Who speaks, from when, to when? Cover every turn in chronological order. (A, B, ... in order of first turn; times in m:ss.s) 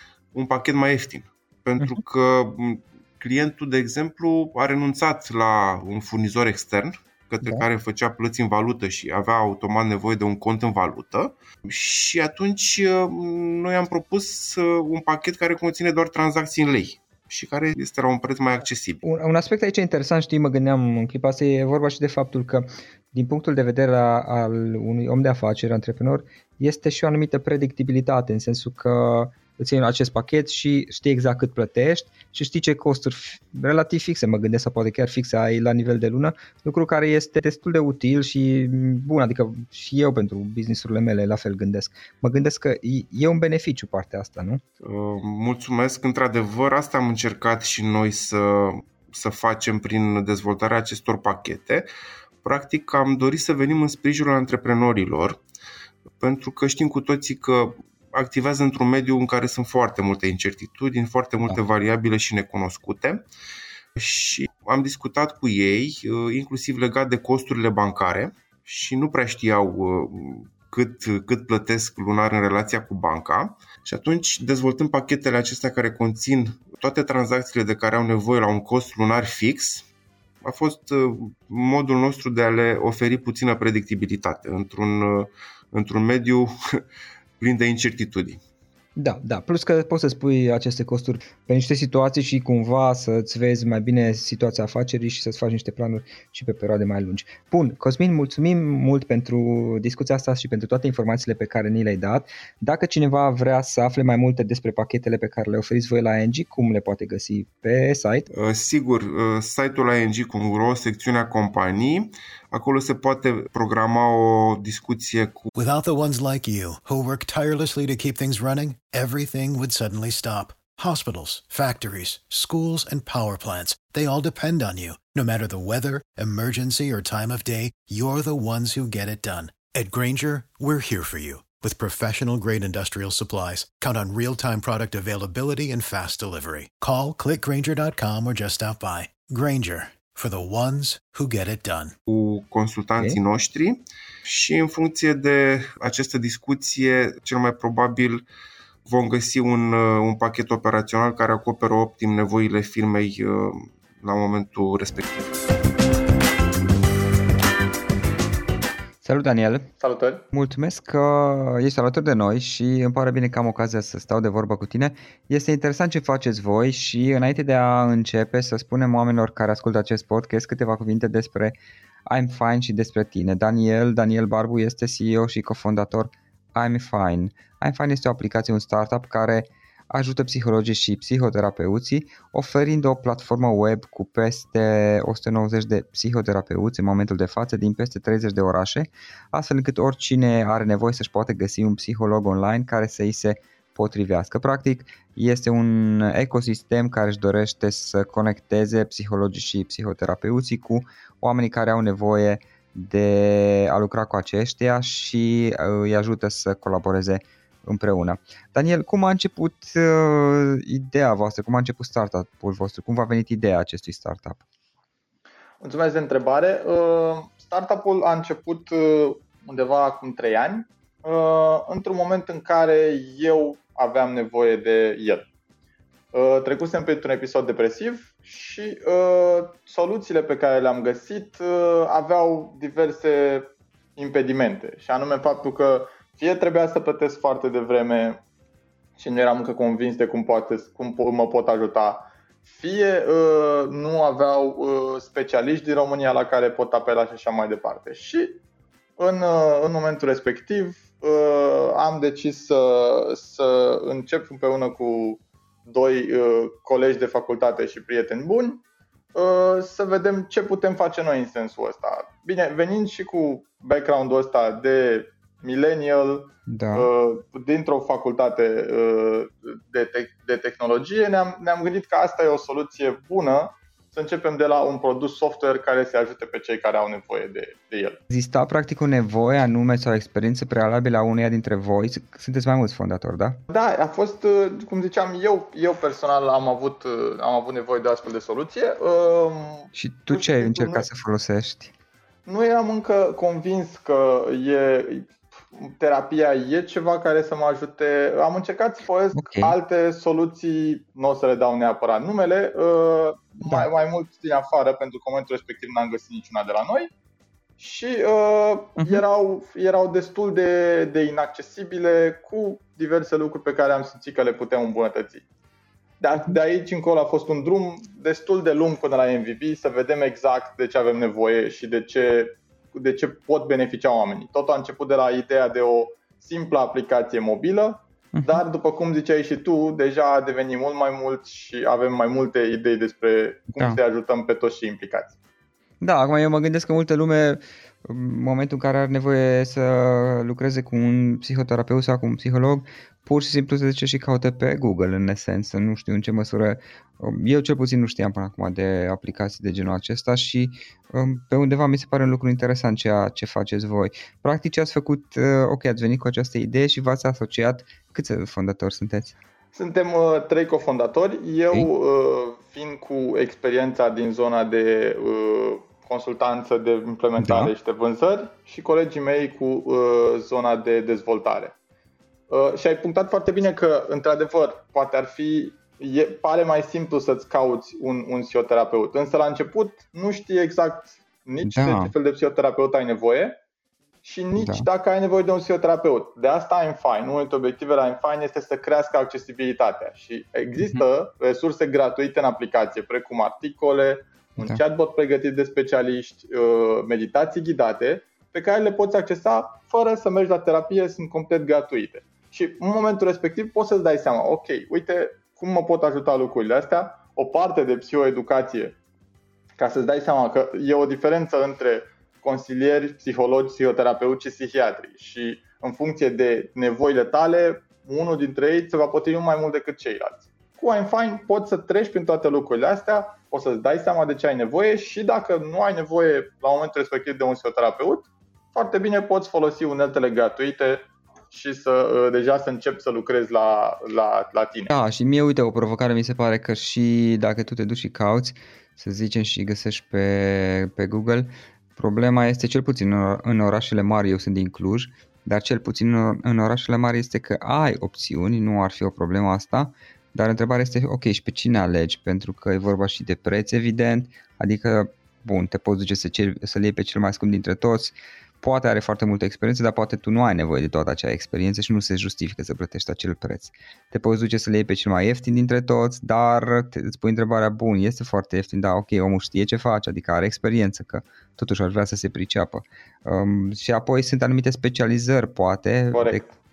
0:00.3-0:19.0 A
0:19.0-0:44.6 B
0:44.8-0:51.9 A
0:52.4-0:55.4 A
0:56.2-1:03.2 A
1:04.0-1:19.8 A
1:20.4-1:26.8 A
1:27.4-1:28.4 A
1:29.0-1:48.3 B
1:48.3-1:55.5 A
1:55.5-2:22.0 C
2:22.1-2:28.2 A
2:28.8-2:35.3 A
2:39.0-2:39.7 B
2:39.8-2:40.2 D
2:40.3-3:34.4 B
3:35.6-3:45.2 D
3:46.1-3:58.2 D
3:59.0-4:08.4 D
4:09.0-4:18.6 D
4:19.1-4:38.0 D
4:26.5-4:26.9 B
4:38.1-4:43.4 B
4:43.5-4:50.8 D
4:49.7-4:51.7 B
4:52.2-5:06.9 D
4:59.1-4:59.5 B
5:07.6-5:15.2 D
5:16.0-5:35.1 D
5:28.1-5:28.4 B
5:35.8-5:59.1 B
5:59.5-6:11.5 D
6:07.2-6:07.5 B
6:12.3-6:23.4 D
6:21.4-6:21.9 B
6:24.0-6:48.7 D
6:24.4-6:24.7 B
6:30.6-6:30.8 B
6:49.6-7:14.7 D
7:14.7-7:56.2 B
7:55.9-7:56.3 D